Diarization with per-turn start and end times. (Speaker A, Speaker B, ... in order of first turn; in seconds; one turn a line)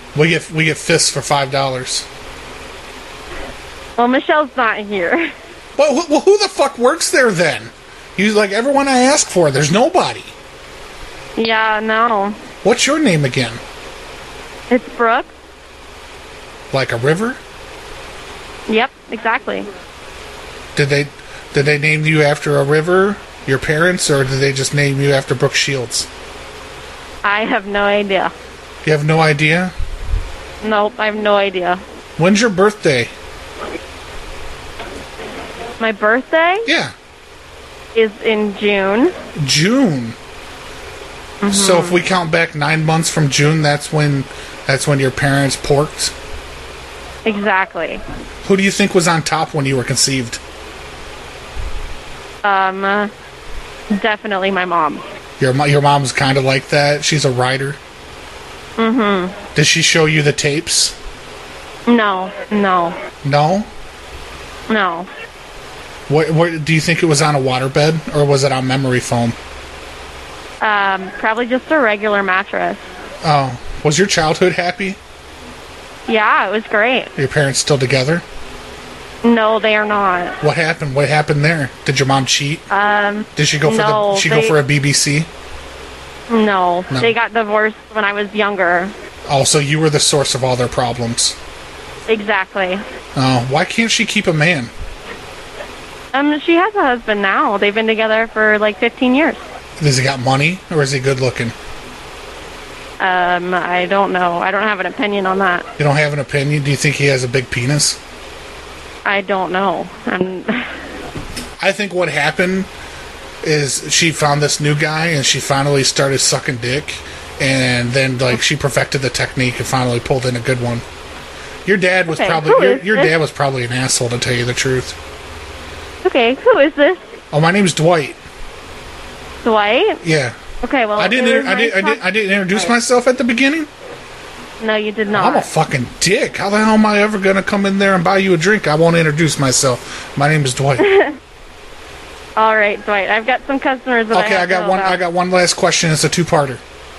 Speaker A: 0.1-2.1
Speaker B: 4.0-5.3
Speaker A: 5.8-10.3
Speaker B: 11.4-12.4
Speaker A: 12.6-13.6
Speaker B: 14.7-15.3
Speaker A: 16.7-17.4
Speaker B: 18.7-19.7
Speaker A: 20.8-26.1
Speaker B: 27.2-28.3
Speaker A: 28.9-29.7
Speaker B: 30.6-31.8
Speaker A: 32.2-33.1
Speaker B: 35.8-36.7
Speaker A: 36.7-36.9
Speaker B: 38.0-39.1
Speaker A: 39.4-40.2
Speaker B: 41.4-42.0
Speaker A: 41.5-46.1
Speaker B: 47.2-48.0
Speaker A: 48.4-50.4
Speaker B: 52.4-53.1
Speaker B: 53.9-55.0
Speaker A: 55.4-57.8
Speaker B: 58.8-59.4
Speaker A: 59.5-61.0
Speaker B: 61.9-63.0
Speaker A: 63.2-63.7
Speaker B: 64.7-65.1
Speaker A: 66.1-69.4
Speaker B: 70.6-72.8
Speaker A: 73.2-75.0
Speaker B: 76.1-77.1
Speaker A: 77.2-78.2
Speaker B: 79.2-80.4
Speaker A: 80.4-82.7
Speaker B: 82.7-84.6
Speaker A: 83.4-85.3
Speaker B: 86.3-88.9
Speaker A: 89.3-91.4
Speaker B: 92.1-92.8
Speaker A: 93.2-94.7
Speaker B: 96.1-99.4
Speaker A: 99.8-101.5
Speaker B: 103.0-105.7
Speaker A: 105.8-108.0
Speaker B: 109.0-110.7
Speaker A: 111.6-112.7
Speaker A: 113.4-120.8
Speaker A: 121.7-125.0
Speaker B: 122.1-123.2
Speaker B: 126.0-127.0
Speaker A: 127.3-128.2
Speaker B: 129.4-130.0
Speaker A: 130.0-130.4
Speaker B: 130.6-132.7
Speaker A: 131.0-133.7
Speaker B: 134.6-135.5
Speaker A: 135.1-140.9
Speaker B: 140.8-141.2
Speaker B: 142.4-145.0
Speaker A: 144.1-146.6